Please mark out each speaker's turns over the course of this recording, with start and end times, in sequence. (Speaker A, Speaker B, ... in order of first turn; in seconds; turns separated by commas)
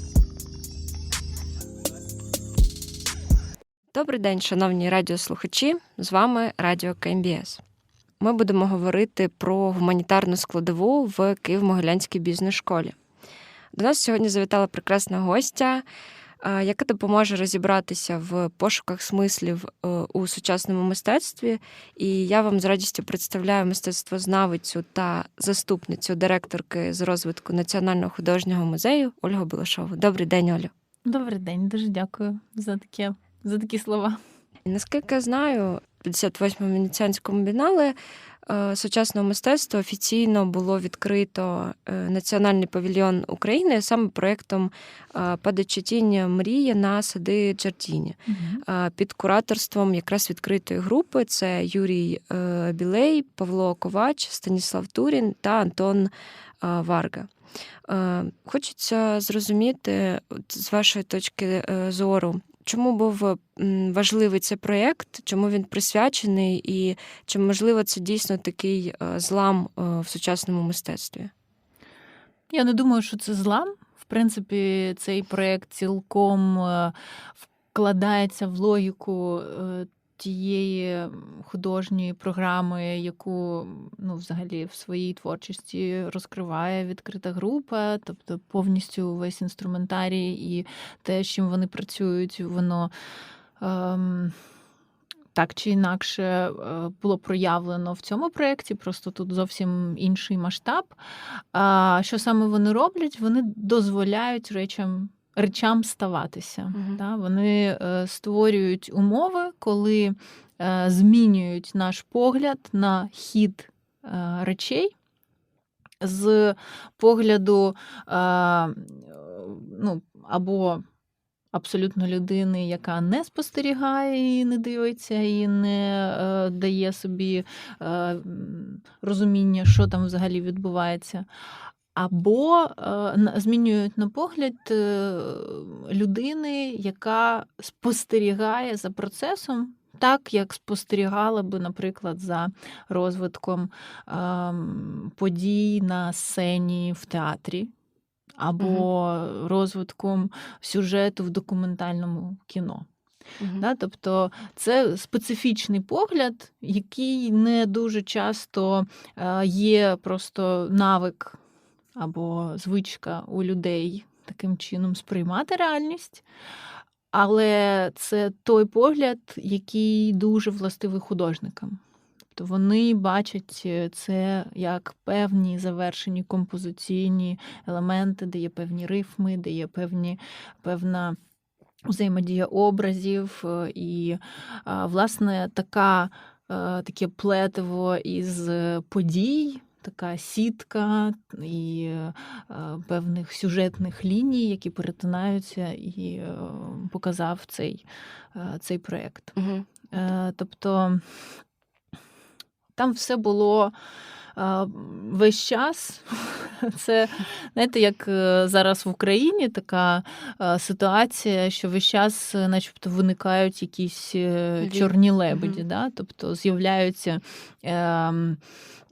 Speaker A: 3.9-7.6, Speaker A: 8.2-12.9, Speaker A: 13.7-15.8, Speaker A: 16.4-30.7, Speaker B: 31.0-34.2, Speaker A: 34.7-56.1, Speaker B: 48.3-48.6, Speaker A: 56.6-57.3, Speaker A: 57.9-71.3, Speaker B: 72.5-76.9, Speaker B: 77.5-92.9, Speaker B: 93.6-94.3, Speaker B: 95.3-101.0, Speaker B: 101.5-114.9, Speaker A: 106.7-107.0, Speaker B: 116.0-120.8, Speaker B: 121.5-131.2, Speaker B: 131.9-147.7, Speaker B: 148.4-152.8, Speaker A: 148.6-148.9, Speaker A: 153.4-153.7, Speaker B: 153.6-161.4, Speaker B: 161.9-166.2, Speaker B: 167.1-171.8, Speaker B: 172.3-181.2, Speaker B: 181.9-199.3, Speaker A: 199.3-199.7, Speaker B: 199.9-201.2, Speaker B: 202.8-203.7, Speaker B: 204.3-218.4, Speaker A: 214.6-215.6